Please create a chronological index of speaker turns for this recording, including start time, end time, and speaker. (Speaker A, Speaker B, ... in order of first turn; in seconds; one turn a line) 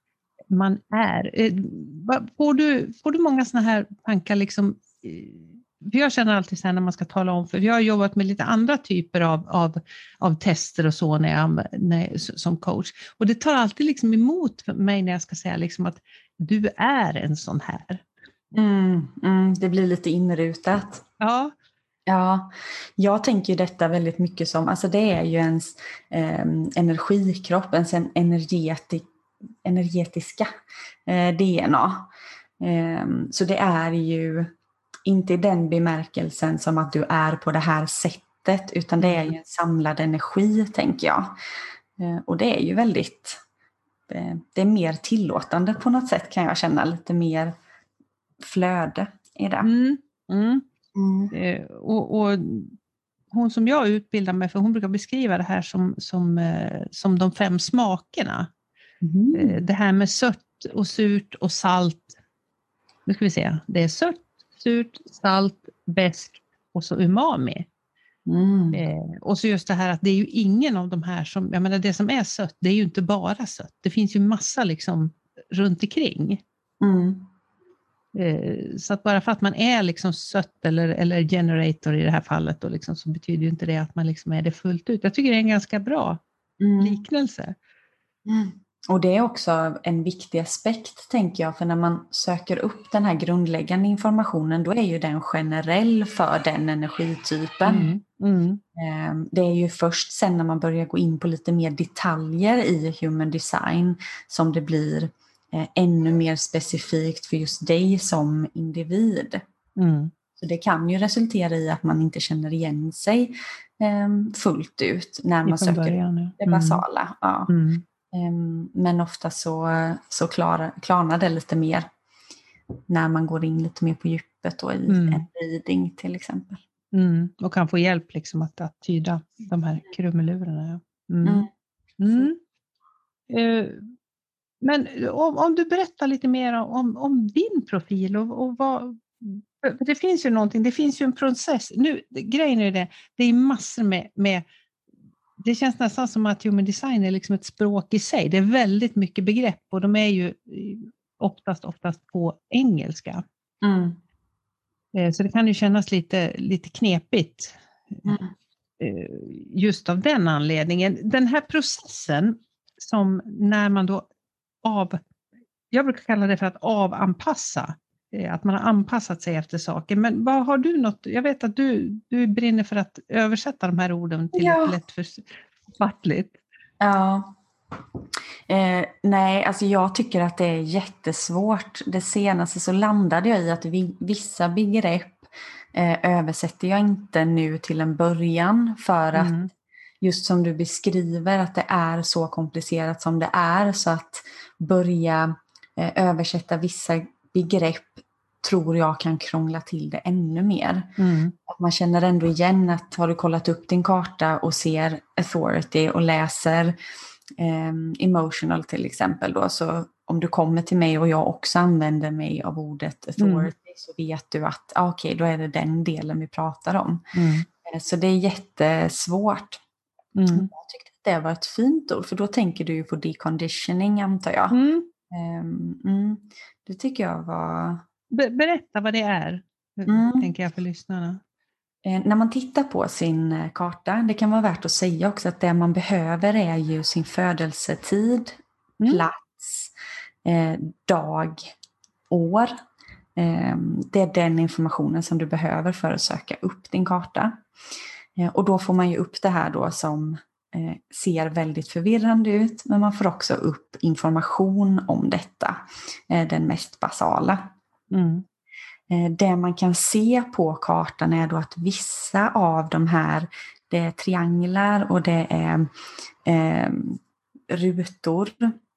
Speaker A: 0.5-18.0
Speaker B: 18.5-21.0
Speaker A: 21.2-21.5
Speaker B: 22.1-29.1
Speaker B: 29.6-30.5
Speaker B: 31.1-32.1
Speaker B: 32.6-34.5
Speaker B: 35.0-41.3
Speaker A: 39.0-39.3
Speaker B: 42.0-43.4
Speaker B: 44.1-47.5
Speaker B: 48.4-49.7
Speaker A: 49.6-50.6
Speaker B: 50.9-51.3
Speaker A: 51.3-52.8
Speaker A: 53.3-58.5
Speaker B: 59.0-59.6
Speaker A: 59.3-62.1
Speaker A: 63.0-67.7
Speaker B: 68.3-68.8
Speaker A: 68.7-76.4
Speaker B: 76.8-77.3
Speaker A: 78.1-86.2
Speaker B: 86.6-87.0
Speaker A: 86.8-87.5
Speaker B: 88.2-97.9
Speaker A: 97.7-98.6
Speaker B: 98.7-109.4
Speaker A: 109.8-110.1
Speaker B: 110.4-117.5
Speaker A: 115.5-116.8
Speaker A: 117.5-117.8
Speaker B: 118.1-121.9
Speaker B: 122.9-126.6
Speaker A: 124.9-125.2
Speaker A: 126.9-131.5
Speaker B: 131.2-131.5
Speaker A: 132.0-132.4
Speaker A: 133.3-133.9
Speaker A: 134.6-144.4
Speaker A: 145.4-153.2
Speaker B: 153.6-154.0
Speaker A: 154.9-158.2
Speaker A: 158.8-164.1
Speaker A: 164.6-165.0
Speaker A: 165.7-176.4
Speaker B: 174.3-174.8
Speaker B: 176.8-177.3
Speaker B: 178.5-189.4
Speaker A: 189.1-189.5
Speaker B: 190.0-200.9
Speaker A: 201.0-201.3
Speaker B: 201.5-206.8
Speaker B: 207.4-217.1
Speaker A: 213.2-213.5
Speaker A: 217.1-217.5
Speaker B: 217.6-219.6
Speaker A: 220.2-220.5
Speaker B: 220.3-224.6
Speaker A: 224.5-224.9
Speaker B: 225.1-227.8
Speaker A: 228.1-231.2
Speaker B: 229.9-230.3
Speaker B: 231.8-239.7
Speaker B: 240.2-241.5
Speaker B: 242.1-242.5
Speaker B: 243.2-247.4
Speaker B: 248.2-257.5
Speaker A: 257.9-258.2
Speaker B: 258.9-265.7
Speaker B: 266.2-268.5